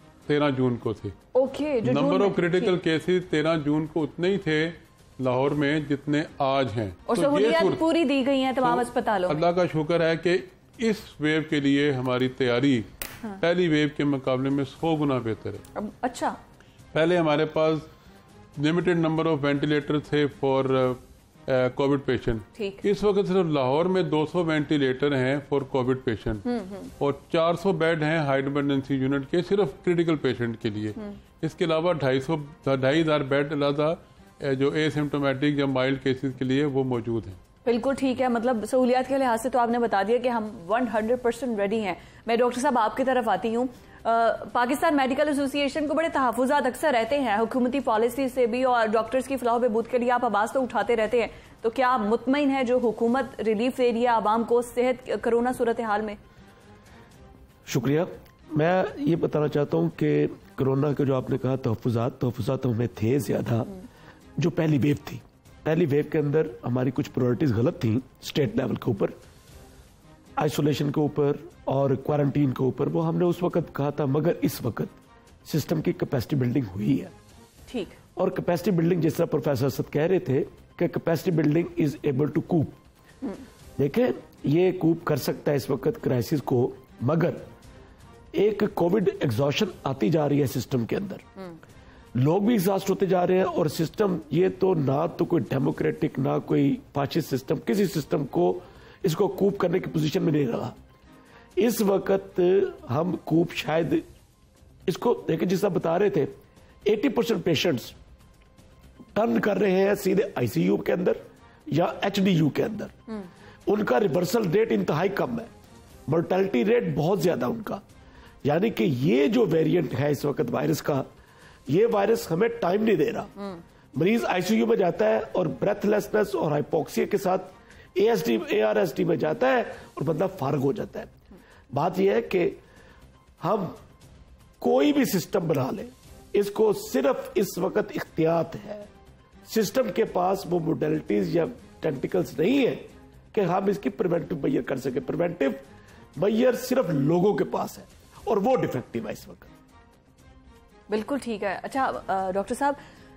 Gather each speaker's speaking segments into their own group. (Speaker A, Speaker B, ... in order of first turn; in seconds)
Speaker A: 0.2-1.1, 1.8-7.8, 8.6-15.6, 16.9-17.9, 18.6-26.4, 27.0-37.4
Speaker B: 1.3-2.7, 7.1-9.4, 15.7-16.4, 22.6-22.8, 26.4-26.9, 37.6-56.2, 77.7-78.0, 150.9-152.8
Speaker C: 57.6-63.7, 64.4-69.1, 70.4-77.1, 78.2-82.8, 83.8-87.5, 88.3-91.2, 92.1-100.8, 101.6-104.0, 104.8-106.3, 106.8-107.9, 109.1-112.9, 113.7-115.5, 116.1-117.8, 118.4-121.1, 121.7-123.3, 123.9-131.1, 131.7-132.6, 133.4-133.8, 134.6-138.9, 139.4-145.7, 146.2-149.5